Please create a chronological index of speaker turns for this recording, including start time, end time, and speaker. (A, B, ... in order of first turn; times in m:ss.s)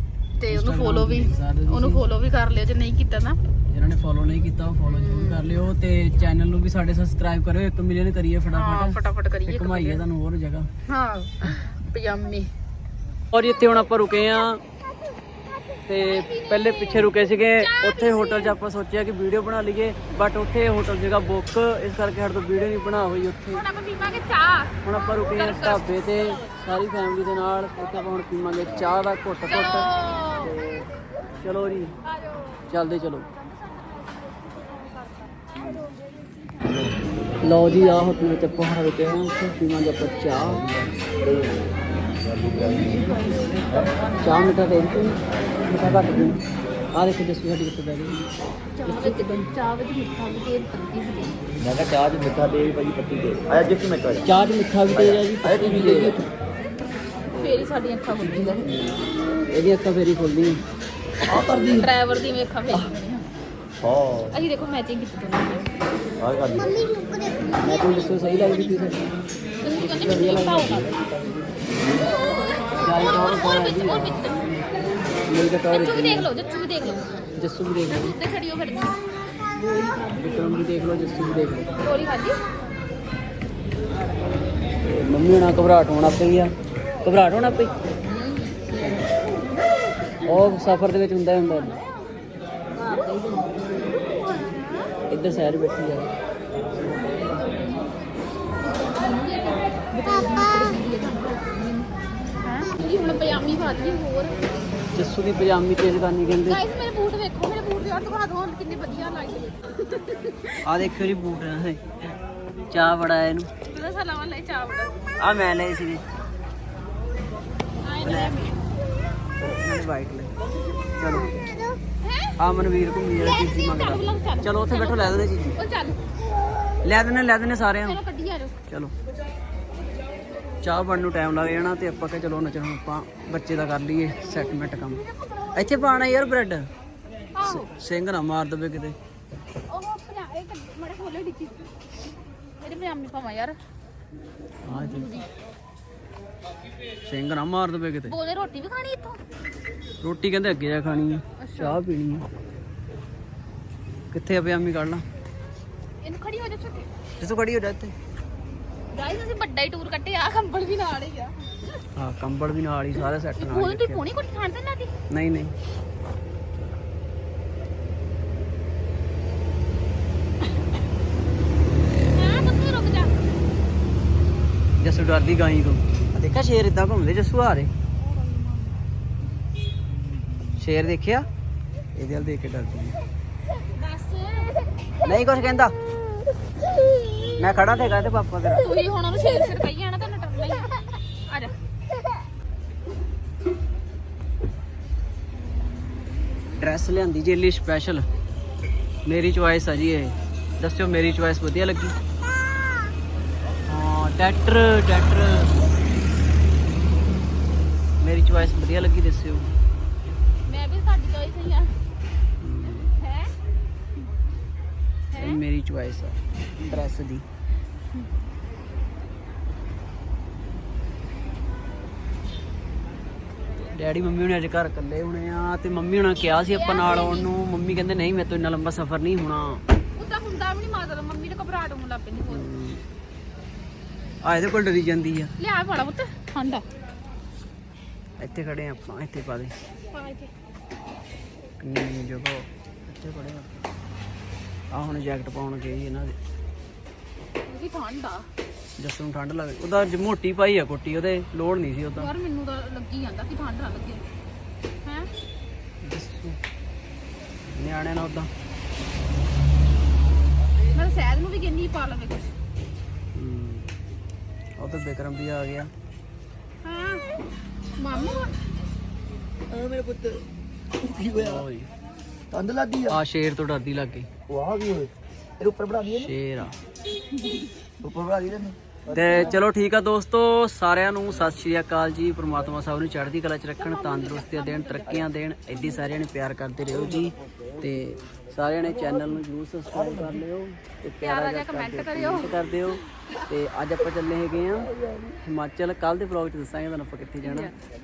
0:00.4-0:03.4 A
0:00.5-0:02.0 B
0:03.7-0:10.7 B
0:04.8-0:05.5 A
0:08.5-0:10.0 A
0:10.9-0:12.5 A
0:13.3-0:14.6 B
0:15.9-0:23.6 B
0:16.0-0:18.5 A
0:23.5-0:26.3 A
0:24.8-0:29.9 B
0:29.4-0:30.6 A
0:31.4-0:32.0 B
0:32.1-0:32.6 A
0:32.7-0:33.3 B
0:33.5-0:35.2 A
0:37.4-0:41.4 B
0:37.7-0:38.1 A
0:40.4-0:41.5 C
0:42.2-0:43.1 C
0:42.5-0:44.8 A
0:44.2-0:46.4 B
0:46.9-0:48.2 B
0:48.8-0:51.4 A
0:48.8-0:49.5 B
0:51.6-0:54.3 C
0:54.2-0:56.2 B
0:54.9-0:56.2 C
0:57.4-0:58.7 A
0:58.6-1:00.6 B
1:01.2-1:01.9 C
1:01.7-1:03.3 A
1:03.8-1:04.3 C
1:04.3-1:05.7 A
1:06.2-1:06.7 C
1:06.6-1:08.3 D
1:07.6-1:10.9 B
1:09.6-1:11.0 A
1:10.9-1:11.3 C
1:11.9-1:14.5 A
1:12.8-1:14.4 B
1:15.3-1:16.3 B
1:15.7-1:17.1 A
1:16.8-1:17.2 D
1:17.3-1:18.2 B
1:17.9-1:19.0 A
1:19.8-1:20.0 A
1:20.1-1:21.8 B
1:21.8-1:22.4 A
1:24.8-1:27.8 B
1:28.1-1:29.1 A
1:28.8-1:29.0 B
1:30.2-1:31.8 B
1:31.4-1:31.8 A
1:32.8-1:34.9 A
1:35.1-1:36.1 B
1:37.0-1:37.9 A
1:38.6-1:41.9 A
1:42.4-1:44.5 A
1:44.9-1:46.6 B
1:46.5-1:50.6 A
1:50.6-1:51.8 B
1:52.7-1:53.5 B
1:53.7-1:55.0 A
1:55.2-1:56.0 B
1:57.8-1:58.6 A
1:58.0-1:58.5 B
1:59.4-2:00.3 B
2:01.0-2:01.4 B
2:01.2-2:01.8 D
2:02.0-2:02.4 A
2:02.4-2:05.6 B
2:03.2-2:06.0 A
2:06.8-2:08.0 B
2:07.8-2:08.6 A
2:10.6-2:15.0 B
2:14.9-2:15.7 A
2:15.5-2:16.7 B
2:17.3-2:17.7 A
2:17.4-2:19.0 B
2:19.7-2:21.7 A
2:22.6-2:23.6 A
2:24.6-2:25.1 B
2:24.7-2:25.3 A
2:27.0-2:28.1 B
2:28.1-2:29.2 A
2:30.0-2:32.3 B
2:31.4-2:31.8 A
2:34.1-2:35.0 B
2:36.0-2:36.9 A
2:37.2-2:37.9 B
2:38.9-2:41.6 A
2:42.0-2:44.0 B
2:43.4-2:44.9 A
2:45.1-2:45.5 B
2:52.1-2:53.2 A
2:54.8-2:57.7 B
2:58.0-2:58.8 A
3:00.3-3:00.6 A
3:00.6-3:01.3 B
3:01.9-3:03.0 B
3:03.7-3:04.5 A
3:05.0-3:05.7 B
3:07.4-3:08.6 B
3:08.6-3:10.7 A
3:11.2-3:11.5 A
3:16.5-3:18.1 B
3:19.0-3:22.0 B
3:23.6-3:25.6 B
3:28.0-3:29.5 B
3:30.4-3:31.7 A
3:32.4-3:32.9 B
3:32.9-3:33.3 A
3:35.1-3:35.4 A
3:35.2-3:37.2 B
3:43.6-3:49.6 B
3:46.5-3:47.3 A
3:49.9-3:52.4 A
3:52.3-3:52.8 B
3:54.2-3:55.3 B
3:55.4-3:56.6 A
3:58.2-3:59.5 B
3:59.9-4:00.3 A
4:01.6-4:03.5 B
4:04.7-4:06.2 B
4:07.4-4:08.3 A
4:08.8-4:12.1 B
4:11.9-4:14.0 A
4:15.8-4:16.4 B
4:17.4-4:18.3 B
4:20.7-4:22.3 A
4:23.1-4:23.7 B
4:24.6-4:25.7 B
4:26.6-4:27.0 A
4:27.8-4:28.3 A
4:29.5-4:30.2 C
4:30.8-4:31.4 C
4:31.2-4:31.7 B
4:32.3-4:33.0 C
4:32.9-4:34.1 B
4:34.3-4:36.1 C
4:36.0-4:36.6 B
4:37.8-4:39.4 C
4:38.9-4:57.5 B
4:38.9-4:39.3 A
4:43.6-4:45.0 A
4:46.7-4:47.6 C
4:48.7-4:50.2 C
4:51.0-4:52.4 A
4:57.2-4:57.5 A